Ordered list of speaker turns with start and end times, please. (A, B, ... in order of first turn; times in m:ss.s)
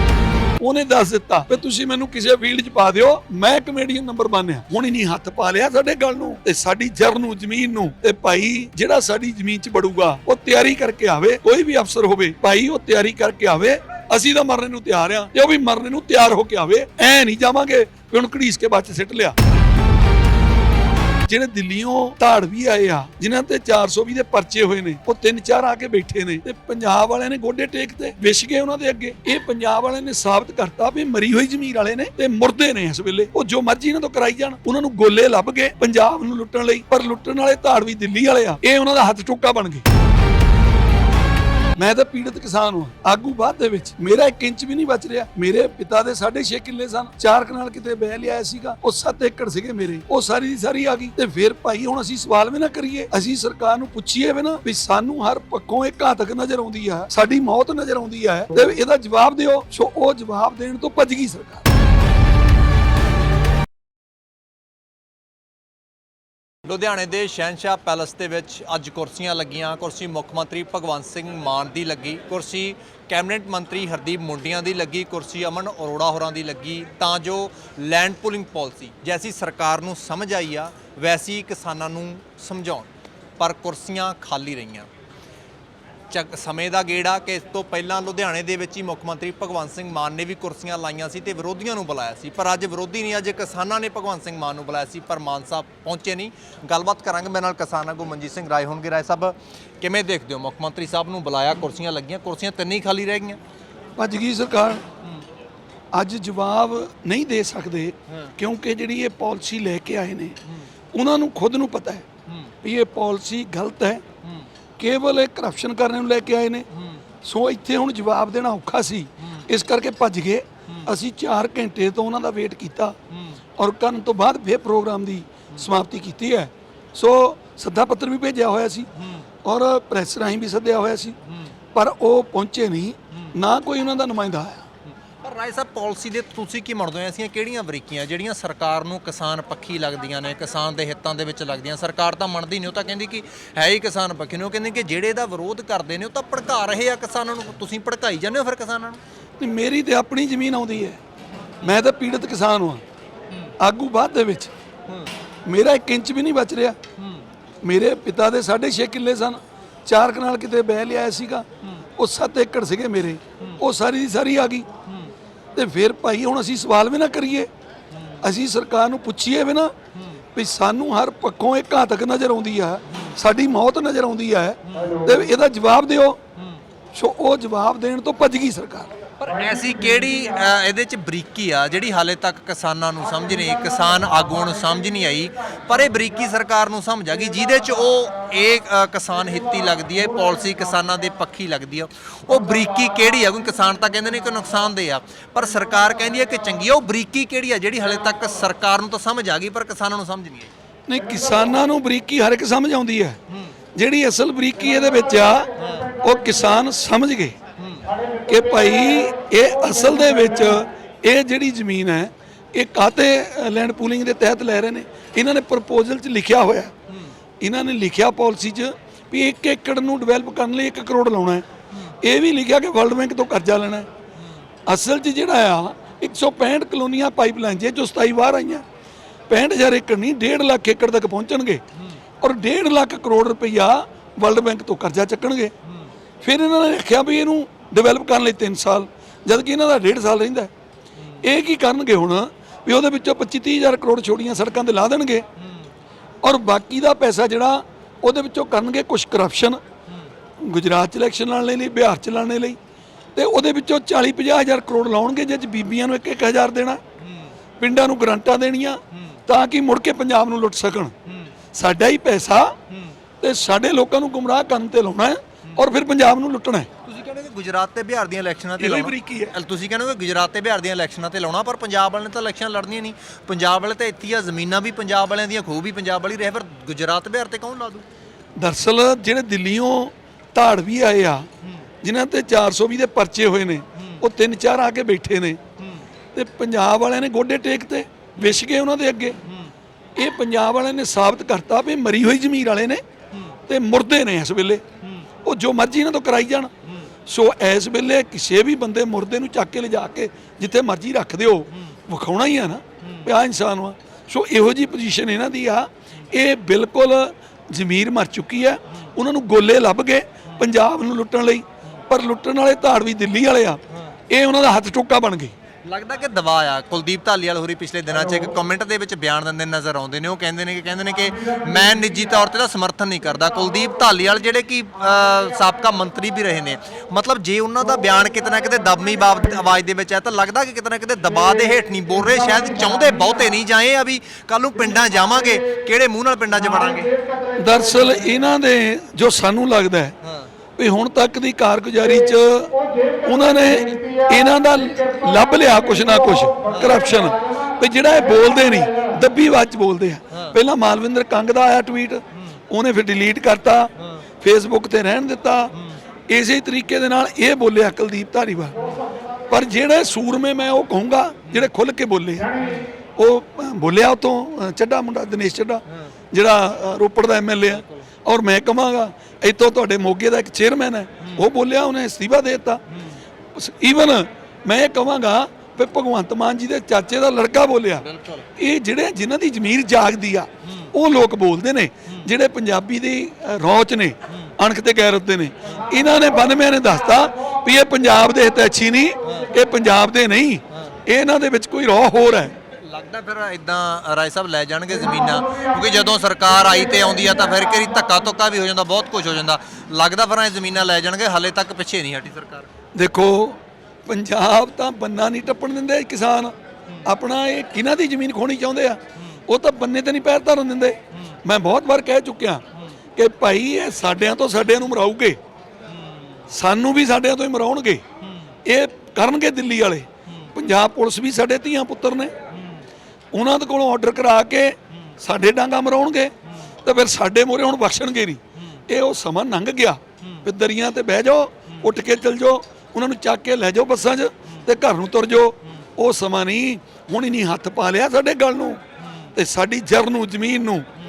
0:00.6-0:19.4 A
0:21.3-0:39.8 A
0:41.8-1:01.7 A
1:06.6-1:22.9 B
1:23.4-1:24.9 B
1:26.1-1:43.4 B
1:44.0-1:44.8 A
1:45.9-1:50.4 A
1:50.9-1:52.0 A
1:52.6-1:54.0 A
1:54.8-1:56.7 A
1:57.2-2:03.0 A
2:03.6-2:08.9 A
2:09.4-2:11.2 A
2:11.7-2:14.7 A
2:15.2-2:29.0 B
2:29.4-2:31.0 A
2:31.6-2:32.8 A
2:33.6-2:34.5 A
2:35.5-2:36.8 A
2:37.6-2:41.5 A
2:42.0-2:44.7 A
2:45.6-2:47.5 A
2:48.2-2:49.7 A
2:50.4-2:56.2 A
2:56.9-2:58.9 A
2:59.2-3:20.5 B
3:20.9-3:23.2 A
3:23.8-3:27.4 A
3:27.6-3:27.9 B
3:28.3-3:36.7 A
3:37.4-3:41.5 A
3:42.0-3:43.9 A
3:44.7-3:48.6 A
3:49.3-3:51.6 A
3:52.2-3:55.5 A
3:56.2-4:00.5 A
4:01.2-4:05.2 A
4:06.2-4:09.6 A
4:10.4-4:12.6 A
4:13.2-4:16.8 A
4:17.6-4:20.9 A
4:21.5-4:22.5 A
4:23.2-4:26.7 A
4:26.8-4:37.9 B
4:28.6-4:29.4 A
4:38.4-4:41.3 A
4:41.8-4:45.4 A
4:46.1-4:49.2 A
4:50.0-4:52.8 A
4:53.5-4:54.6 A
4:55.2-4:56.5 A
4:57.1-5:15.3 A
5:15.6-5:36.9 B
5:37.4-5:40.0 A
5:40.0-5:40.3 B
5:40.6-5:53.7 A
5:54.2-5:55.5 A
5:56.1-5:58.6 A
5:59.3-6:02.4 A
6:02.4-6:02.7 B
6:03.0-6:12.6 A
6:13.4-6:17.8 A
6:17.8-6:18.2 B
6:18.4-6:32.4 A
6:32.6-6:42.5 B
6:42.8-6:46.3 A
6:46.8-6:52.4 A
6:53.0-6:55.2 A
6:56.3-6:57.8 A
6:58.5-7:02.1 A
7:03.1-7:18.6 A
7:19.1-7:20.7 A